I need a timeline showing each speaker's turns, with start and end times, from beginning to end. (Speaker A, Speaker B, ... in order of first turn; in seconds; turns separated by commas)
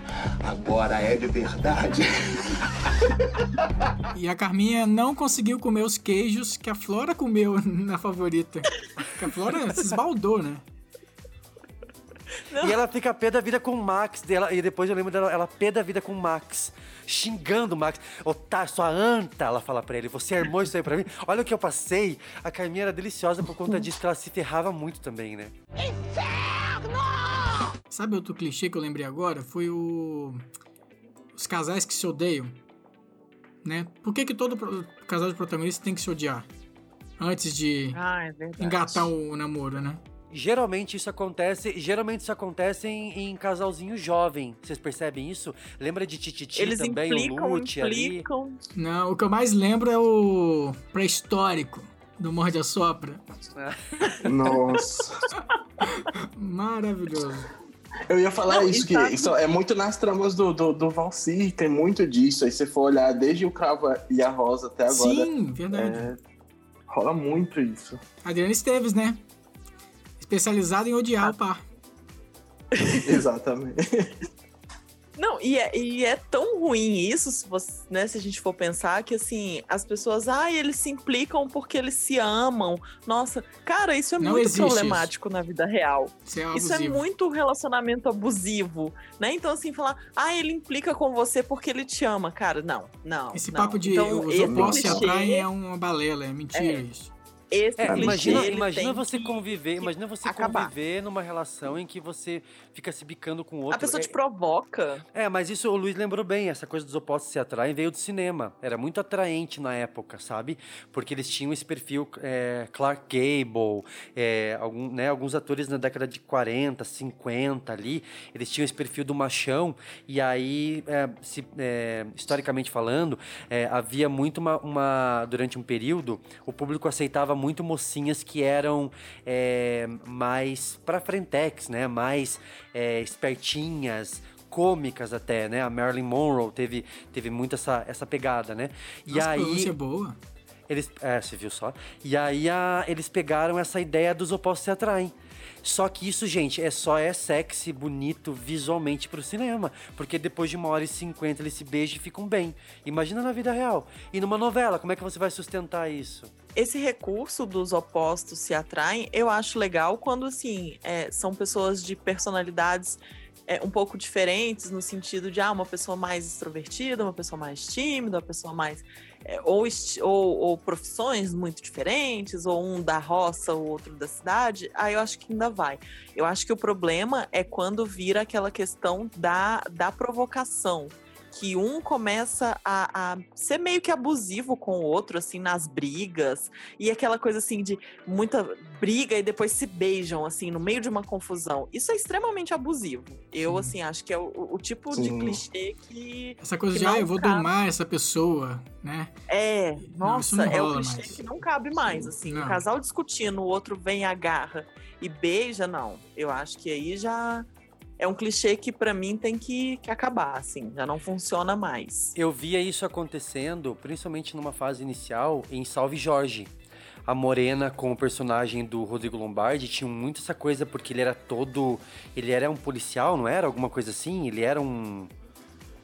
Speaker A: 0.4-2.6, Speaker B: 4.1-10.6, Speaker C: 12.5-12.8, Speaker D: 12.6-25.5, Speaker A: 25.8-27.6, Speaker B: 27.9-30.4, Speaker B: 31.4-32.5, Speaker B: 33.6-36.5, Speaker B: 37.2-38.0, Speaker C: 37.9-39.1, Speaker B: 38.6-40.0, Speaker D: 40.3-48.3, Speaker C: 46.6-48.6, Speaker B: 48.8-53.2, Speaker E: 54.2-55.2, Speaker B: 55.9-57.5, Speaker E: 58.1-66.2, Speaker C: 58.5-59.4, Speaker B: 64.9-66.1, Speaker E: 66.9-68.0, Speaker B: 68.2-69.2, Speaker B: 70.2-71.6, Speaker C: 72.8-73.0, Speaker E: 73.0-74.2, Speaker C: 75.2-95.5, Speaker B: 84.2-85.1, Speaker B: 86.3-87.0, Speaker B: 93.3-97.1, Speaker E: 94.4-95.1, Speaker C: 96.5-96.8, Speaker C: 97.5-100.7, Speaker D: 97.8-104.1, Speaker E: 97.8-98.5, Speaker C: 103.7-105.0, Speaker D: 105.1-139.7, Speaker B: 139.1-140.2, Speaker D: 140.7-145.1, Speaker D: 145.6-156.3, Speaker C: 156.6-197.5, Speaker B: 193.5-193.7, Speaker E: 194.9-195.4, Speaker B: 196.4-199.1, Speaker C: 199.3-207.5, Speaker B: 199.8-201.2, Speaker B: 202.2-202.6, Speaker C: 208.0-212.2, Speaker D: 212.2-216.5, Speaker D: 217.1-225.1